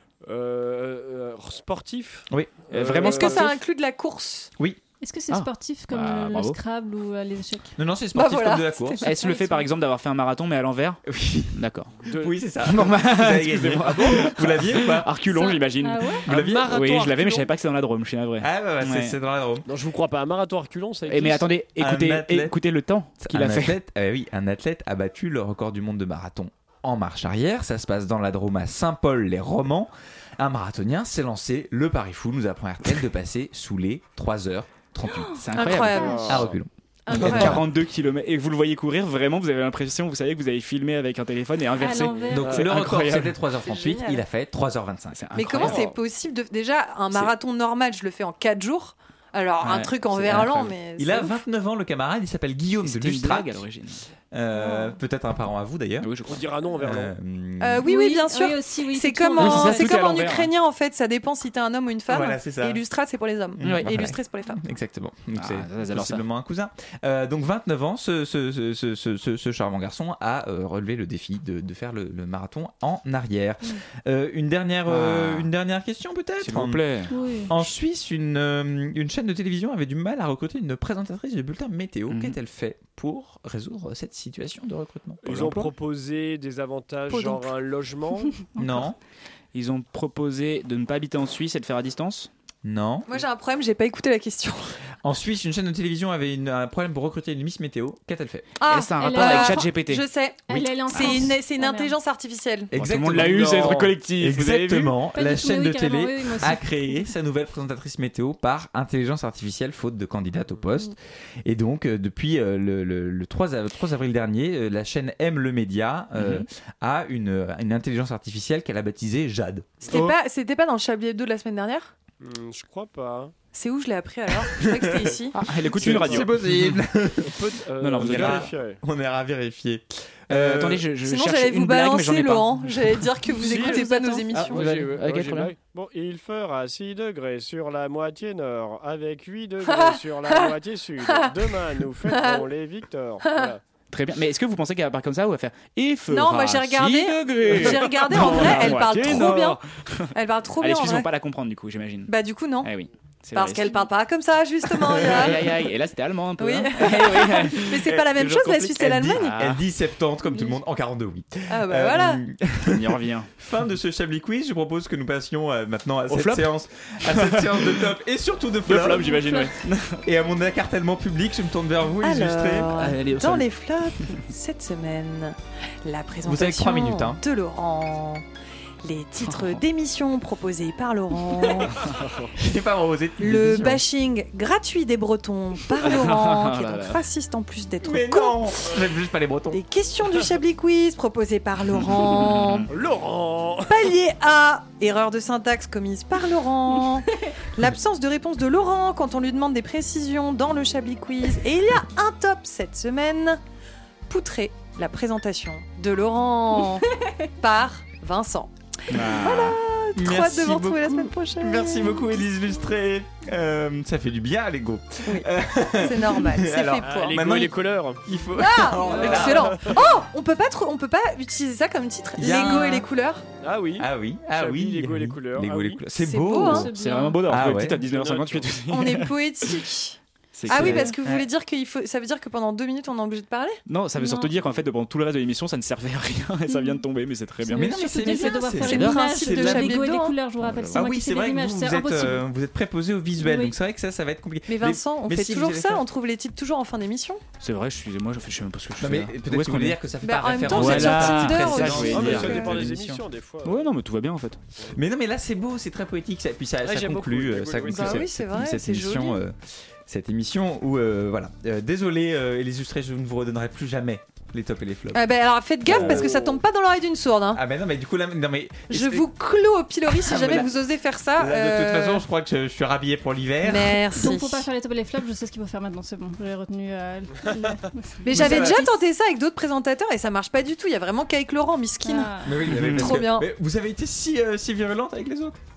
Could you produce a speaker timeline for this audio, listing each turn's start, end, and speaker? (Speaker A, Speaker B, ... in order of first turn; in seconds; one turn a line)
Speaker A: 0.2-3.5
Speaker B: 2.7-3.6
Speaker C: 3.0-4.5
Speaker D: 5.0-7.7
Speaker B: 5.3-6.6
Speaker E: 7.8-9.0
Speaker C: 8.1-9.2
Speaker B: 9.0-11.9
Speaker D: 9.1-9.7
Speaker E: 11.1-11.5
Speaker A: 12.1-12.3
Speaker E: 12.1-15.1
Speaker B: 12.6-19.2
Speaker D: 15.3-16.2
Speaker E: 16.3-16.7
Speaker A: 16.3-17.5
Speaker E: 18.4-19.7
Speaker A: 19.7-21.5
Speaker B: 21.1-23.8
Speaker E: 21.8-22.6
Speaker E: 23.2-35.5
Speaker D: 35.1-35.4
Speaker B: 35.4-36.5
Speaker C: 35.5-36.5
Speaker D: 36.0-36.3
Speaker A: 36.2-36.4
Speaker E: 36.2-37.7
Speaker C: 37.0-37.6
Speaker B: 37.1-43.4
Speaker D: 41.8-42.6
Speaker E: 42.2-45.7
Speaker C: 43.6-44.2
Speaker B: 45.1-45.9
Speaker C: 45.4-51.4
Speaker A: 45.5-45.9
Speaker B: 49.6-50.7
Speaker E: 51.0-53.6
Speaker B: 52.8-54.0
Speaker E: 54.3-56.2
Speaker C: 54.6-54.9
Speaker B: 56.0-56.4
Speaker A: 56.3-57.1
Speaker E: 56.8-57.8
Speaker C: 57.6-64.7
Speaker D: 57.8-60.0
Speaker B: 59.4-60.5
Speaker E: 62.1-62.8
Speaker B: 63.6-64.2
Speaker E: 63.6-76.9
Speaker B: 65.4-66.2
Speaker B: 74.9-75.5
Speaker B: 76.4-77.6
Speaker D: 77.1-77.5
Speaker E: 77.5-85.2
Speaker B: 82.1-82.4
Speaker A: 85.2-88.3
Speaker B: 85.3-85.7
Speaker C: 87.1-87.5
Speaker E: 88.6-89.0
Speaker D: 88.6-88.9
Speaker B: 89.5-92.3
Speaker E: 92.6-93.1
Speaker C: 93.1-94.7
Speaker E: 95.0-98.5
Speaker C: 98.6-102.7
Speaker B: 98.7-100.0
Speaker D: 99.0-99.7
Speaker D: 100.5-102.0
Speaker B: 100.9-101.3
Speaker E: 102.7-119.8
Speaker B: 102.7-105.0
Speaker A: 103.1-104.0
Speaker D: 105.1-106.7
Speaker B: 116.1-116.5
Speaker C: 119.8-121.9
Speaker B: 119.9-120.1
Speaker A: 122.2-123.3
Speaker C: 123.5-125.4
Speaker E: 124.6-125.1
Speaker B: 125.3-126.8
Speaker E: 125.8-127.4
Speaker A: 125.8-126.3
Speaker A: 127.2-128.8
Speaker B: 127.8-128.5
Speaker E: 128.0-130.8
Speaker B: 130.3-133.1
Speaker C: 131.0-134.9
Speaker D: 133.4-134.3
Speaker A: 133.4-143.6
Speaker B: 134.3-135.5
Speaker C: 139.6-142.5
Speaker C: 143.2-143.5
Speaker B: 143.9-153.8
Speaker C: 146.1-149.6
Speaker A: 147.5-148.6
Speaker C: 150.1-151.1
Speaker C: 152.1-152.7
Speaker C: 153.3-155.6
Speaker B: 154.7-159.6
Speaker C: 156.4-159.4
Speaker E: 157.9-169.3
Speaker C: 161.5-162.2
Speaker B: 162.7-163.3
Speaker B: 166.1-167.9
Speaker B: 168.7-170.0
Speaker D: 169.0-169.5
Speaker E: 170.0-172.7
Speaker C: 172.0-178.2
Speaker B: 172.7-173.5
Speaker E: 176.2-177.2
Speaker C: 178.8-181.8
Speaker B: 179.2-179.6
Speaker A: 181.9-182.3
Speaker E: 182.4-183.8
Speaker C: 183.2-188.6
Speaker B: 183.5-183.8
Speaker B: 185.8-187.0
Speaker E: 187.8-189.6
Speaker C: 189.5-192.7
Speaker B: 192.2-192.6
Speaker A: 192.7-193.8
Speaker C: 193.7-203.4
Speaker C: 204.1-212.3
Speaker B: 208.9-209.6
Speaker E: 209.9-219.8
Speaker C: 215.1-217.2
Speaker A: 216.8-218.0
Speaker C: 218.3-223.2
Speaker D: 218.8-219.4
Speaker A: 219.0-219.8
Speaker E: 222.2-222.8
Speaker D: 222.3-222.9
Speaker A: 223.4-225.9
Speaker E: 223.8-226.7
Speaker C: 225.9-226.7
Speaker D: 226.3-227.4
Speaker B: 226.7-229.1
Speaker E: 227.3-227.8
Speaker A: 227.8-228.6
Speaker C: 228.7-233.6
Speaker B: 230.3-230.9
Speaker E: 230.5-231.3
Speaker B: 233.7-237.8
Speaker D: 234.0-234.3
Speaker D: 237.4-242.3
Speaker E: 237.5-239.8
Speaker C: 238.6-240.2
Speaker B: 238.7-238.9
Speaker B: 240.4-240.9
Speaker E: 240.7-245.8
Speaker D: 243.2-243.5
Speaker C: 244.5-247.2
Speaker B: 247.4-249.8
Speaker E: 248.8-253.0
Speaker C: 250.0-252.6
Speaker B: 250.4-252.5
Speaker A: 251.6-253.7
Speaker B: 253.4-254.4
Speaker E: 254.7-265.1
Speaker A: 256.6-258.1
Speaker C: 257.7-259.2
Speaker C: 264.9-267.4
Speaker E: 265.6-266.1
Speaker A: 265.7-266.4
Speaker E: 267.3-269.0
Speaker C: 268.7-272.1
Speaker E: 270.0-270.6
Speaker E: 271.2-273.9
Speaker C: 273.4-274.5
Speaker D: 273.9-278.7
Speaker C: 278.0-283.3
Speaker E: 278.1-278.7
Speaker D: 281.8-282.4
Speaker E: 282.2-285.4
Speaker B: 282.5-283.1